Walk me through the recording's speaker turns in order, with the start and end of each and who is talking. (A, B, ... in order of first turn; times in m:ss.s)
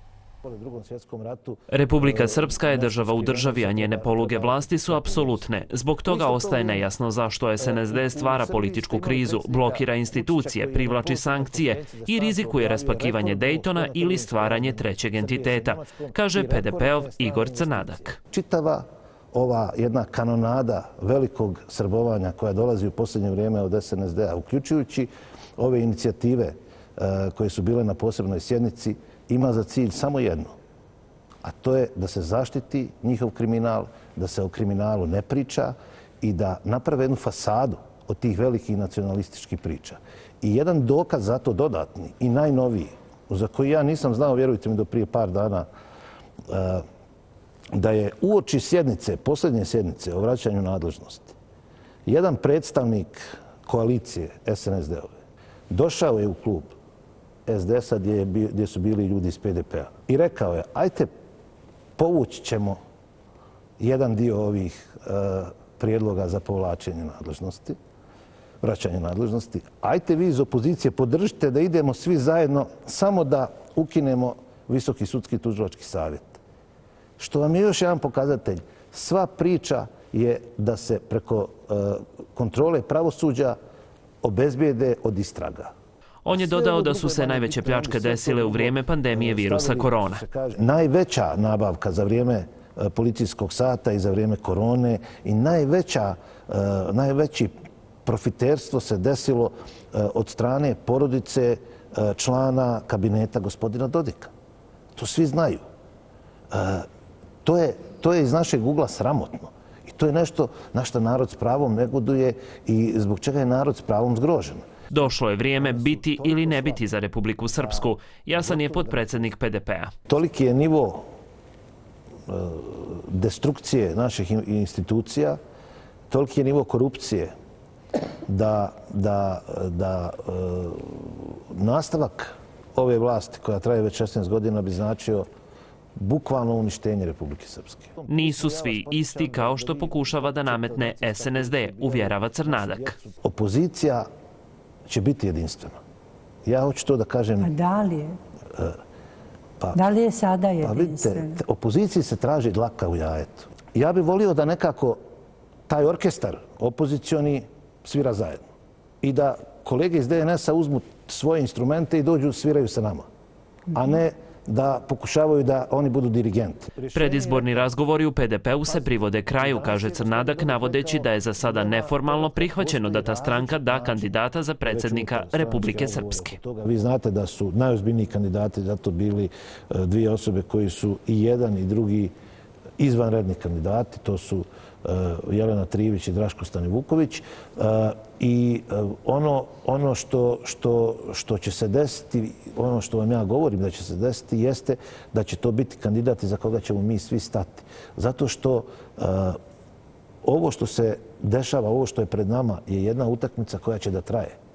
0:00.4-0:05.5 A
0:01.7-0:18.2 B
0:06.0-0:06.9 A
0:07.6-0:30.5 A
0:31.4-0:45.7 A
0:46.5-0:46.8 A
0:47.7-0:51.3 A
0:52.1-0:55.1 A
0:55.7-0:56.7 A
0:57.4-1:01.1 A
1:02.0-1:02.8 A
1:03.8-1:07.8 A
1:08.6-1:16.4 A
1:17.2-1:23.6 A
1:24.2-1:25.7 A
1:26.2-1:30.2 B
1:26.3-1:44.3 A
1:45.0-1:45.6 A
1:46.5-1:46.8 A
1:47.4-1:54.7 A
1:54.9-1:59.9 B
1:55.6-1:56.8 A
1:57.6-1:59.2 A
2:00.1-2:01.0 A
2:02.3-2:05.4 A
2:06.1-2:07.3 A
2:08.2-2:15.3 A
2:16.0-2:24.1 A
2:18.1-2:23.0 B
2:24.8-2:25.8 A
2:26.4-2:27.5 A
2:27.4-2:28.2 C
2:29.6-2:29.8 A
2:29.7-2:31.4 C
2:30.6-2:35.0 A
2:35.7-2:38.4 A
2:39.0-2:43.1 A
2:43.7-2:47.7 A
2:46.9-2:56.4 B
2:48.6-3:02.1 A
3:02.8-3:19.4 A
3:20.2-3:24.4 A